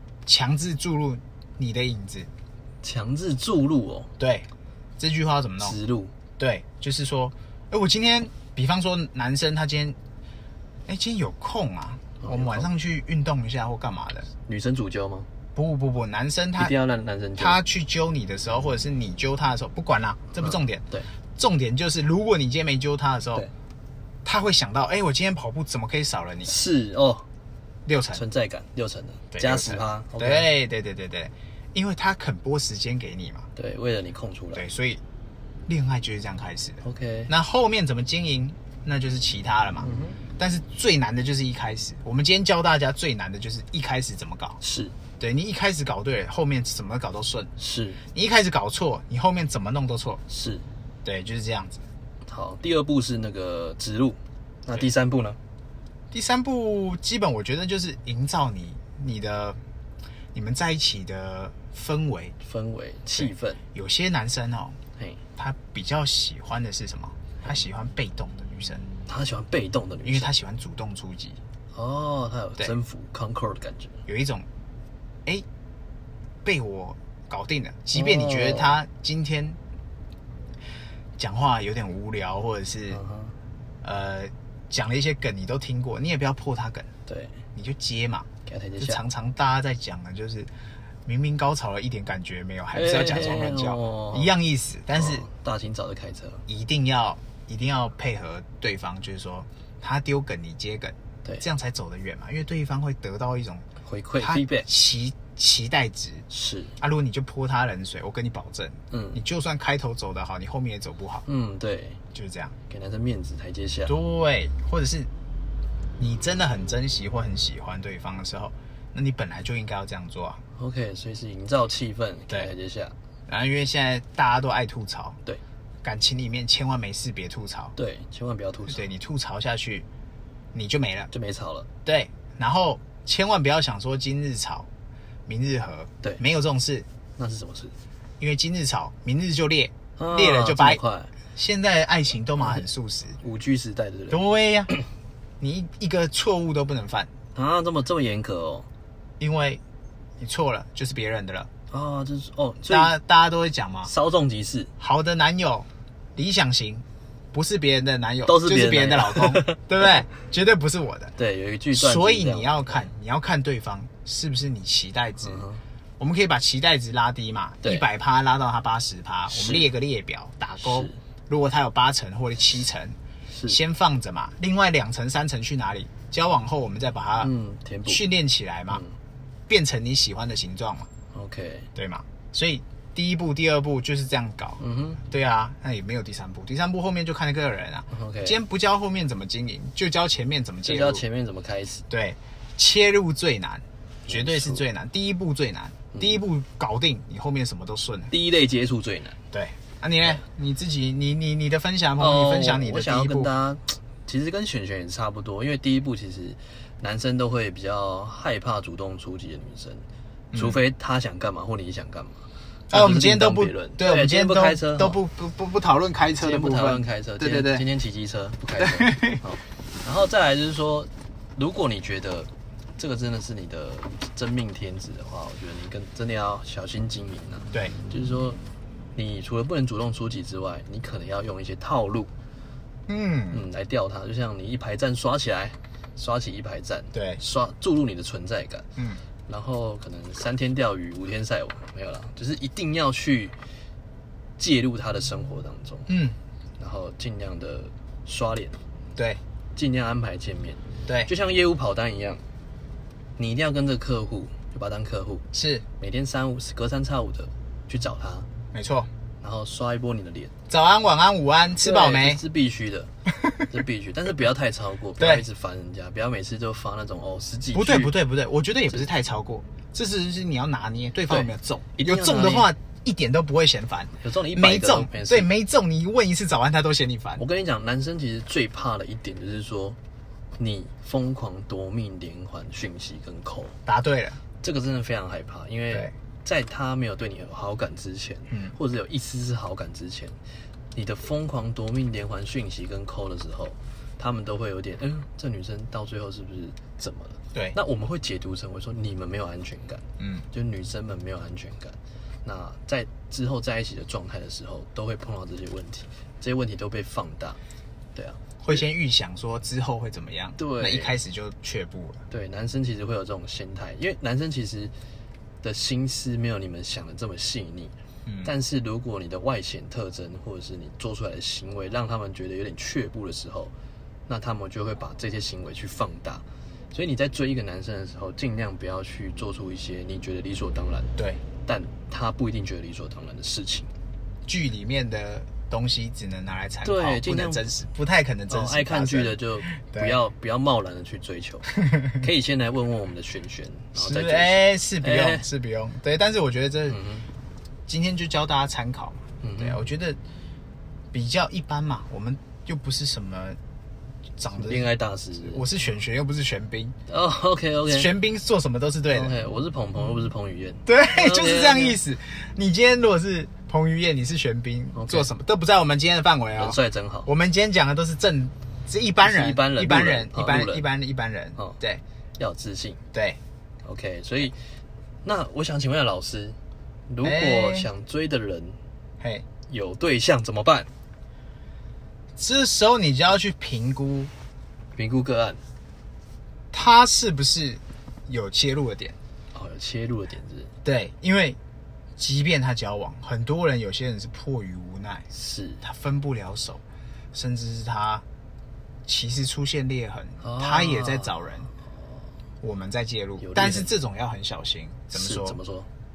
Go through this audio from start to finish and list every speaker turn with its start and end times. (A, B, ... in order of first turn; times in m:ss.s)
0:00.2-0:02.3 A
0:02.8-0:04.1 B
0:04.2-0:04.5 A
0:05.0-0:05.8 A
0:05.6-0:06.1 B
0:06.4-0:10.0 A
0:10.9-0:14.3 A
0:12.2-0:12.7 B
0:14.4-0:15.3 B
0:15.5-0:16.7 A
0:16.6-0:17.6 B
0:17.4-0:20.8 A
0:20.4-0:21.1 B
0:21.4-0:23.5 A
0:24.2-0:26.5 A
0:26.4-0:27.2 B
0:27.8-0:28.2 A
0:28.1-0:30.5 B
0:29.3-0:33.5 A
0:33.6-0:34.6 B
0:34.5-0:35.0 A
0:35.7-0:39.9 A
0:36.8-0:37.3 B
0:39.8-0:40.2 B
0:40.4-0:44.6 A
0:44.6-0:44.9 B
0:45.2-0:47.5 A
0:47.6-0:48.0 B
0:48.1-0:50.2 A
0:50.3-0:50.6 B
0:51.0-0:51.8 A
0:52.2-0:55.4 B
0:56.1-0:59.6 A
1:00.3-1:02.3 A
1:02.4-1:03.6 B
1:03.2-1:04.8 A
1:05.4-1:08.9 A
1:09.1-1:10.3 B
1:10.0-1:11.4 A
1:11.7-1:14.0 B
1:14.1-1:14.5 A
1:16.4-1:19.6 A
1:17.9-1:18.8 B
1:21.2-1:23.0 A
1:22.9-1:23.3 B
1:23.8-1:26.9 A
1:27.1-1:27.4 B
1:27.5-1:28.3 A
1:28.4-1:29.0 B
1:28.8-1:30.5 A
1:31.0-1:35.2 A
1:32.7-1:34.3 B
1:34.9-1:36.4 B
1:36.5-1:43.6 A
1:43.8-1:44.7 B
1:44.2-1:46.2 A
1:46.3-1:46.7 B
1:46.8-1:51.2 A
1:48.9-1:49.2 B
1:51.2-1:52.0 B
1:52.1-1:52.5 A
1:52.7-1:53.9 B
1:53.9-1:55.1 A
1:56.0-2:00.4 A
2:00.6-2:02.9 B
2:03.3-2:05.2 A
2:05.8-2:07.7 A
2:07.8-2:08.8 B
2:08.7-2:09.8 A
2:10.5-2:11.1 A
2:11.1-2:11.7 B
2:11.8-2:14.7 A
2:15.3-2:16.9 A
2:17.2-2:17.7 B
2:18.2-2:20.8 A
2:20.0-2:21.1 B
2:21.3-2:23.2 A
2:23.2-2:24.8 B
2:24.1-2:24.7 A
2:25.4-2:27.1 A
2:27.3-2:28.7 B
2:29.2-2:29.6 A
2:30.2-2:31.5 A
2:31.7-2:32.9 B
2:32.7-2:33.9 A
2:33.8-2:34.7 B
2:34.8-2:41.1 A
2:38.2-2:39.6 B
2:41.2-2:42.9 B
2:41.7-2:45.4 A
2:45.2-2:45.6 B
2:46.0-2:53.0 A
2:49.3-2:49.7 B
2:50.6-2:51.0 B
2:53.3-2:53.6 B
2:53.5-2:57.3 A
2:57.2-2:58.0 B
2:57.9-2:58.8 A
2:59.5-3:00.9 A
3:01.1-3:01.7 B
3:01.7-3:11.0 A
3:04.6-3:05.0 B
3:07.9-3:08.4 B
3:10.6-3:11.8 B
3:11.9-3:18.1 A
3:14.1-3:14.6 B
3:15.9-3:16.2 B
3:18.1-3:19.2 B
3:19.3-3:23.3 A
3:22.0-3:35.0 B
3:30.3-3:30.6 A
3:32.7-3:37.6 A
3:36.2-3:48.4 B
3:38.6-3:39.2 A
3:48.9-3:52.1 B
3:52.9-3:53.4 A
3:53.3-3:58.6 B
3:56.9-3:57.2 A
3:58.8-3:59.0 A
3:59.3-4:03.3 B
4:04.4-4:05.9 B
4:05.9-4:06.2 A
4:06.6-4:08.6 B
4:09.6-4:12.2 B
4:13.2-4:15.2 B
4:15.3-4:15.6 A
4:15.8-4:18.3 B
4:18.5-4:18.9 A
4:19.2-4:20.3 B
4:20.5-4:22.2 A
4:21.6-4:22.9 B
4:23.5-4:28.0 B
4:25.0-4:25.2 A
4:27.5-4:37.2 A
4:31.1-4:32.5 B
4:34.0-4:35.3 B
4:37.2-4:39.8 B
4:40.4-4:43.6 B
4:43.6-4:44.2 A
4:44.4-4:50.2 B
4:48.3-4:48.5 A
4:50.7-5:07.4 B
5:00.0-5:00.2 A
5:07.9-5:08.6 B
5:08.4-5:12.0 A
5:10.4-5:10.9 B
5:12.1-5:14.7 B
5:15.4-5:23.5 B
5:18.0-5:18.3 A
5:24.1-5:33.7 B
5:34.3-5:40.0 A
5:36.6-5:37.4 B
5:38.3-5:45.2 B
5:41.6-5:42.0 A
5:43.7-5:46.8 A
5:46.7-5:47.0 B
5:47.7-5:50.0 A
5:49.2-5:49.6 B
5:50.9-5:53.4 A
5:54.2-5:56.7 A
5:54.3-5:55.4 B
5:56.9-5:57.9 B
5:57.7-5:59.1 A
5:58.9-6:01.8 B
6:00.6-6:11.8 A
6:04.7-6:05.1 B
6:06.4-6:07.1 B
6:09.0-6:10.6 B
6:12.2-6:12.8 B
6:12.9-6:13.2 A
6:13.6-6:14.3 B
6:15.0-6:16.4 B
6:16.9-6:18.6 B
6:17.0-6:17.7 A
6:19.0-6:19.2 A
6:19.5-6:20.7 B
6:22.2-6:24.1 A
6:24.7-6:25.4 B
6:26.5-6:29.0 A
6:29.3-6:30.5 B
6:30.6-6:31.4 A
6:32.0-6:35.1 A
6:35.1-6:35.6 B
6:35.6-6:36.6 A
6:37.1-6:38.0 A
6:38.8-6:41.5 A
6:40.2-6:41.2 B
6:42.4-6:45.4 A
6:43.2-6:43.7 B
6:44.9-6:45.7 B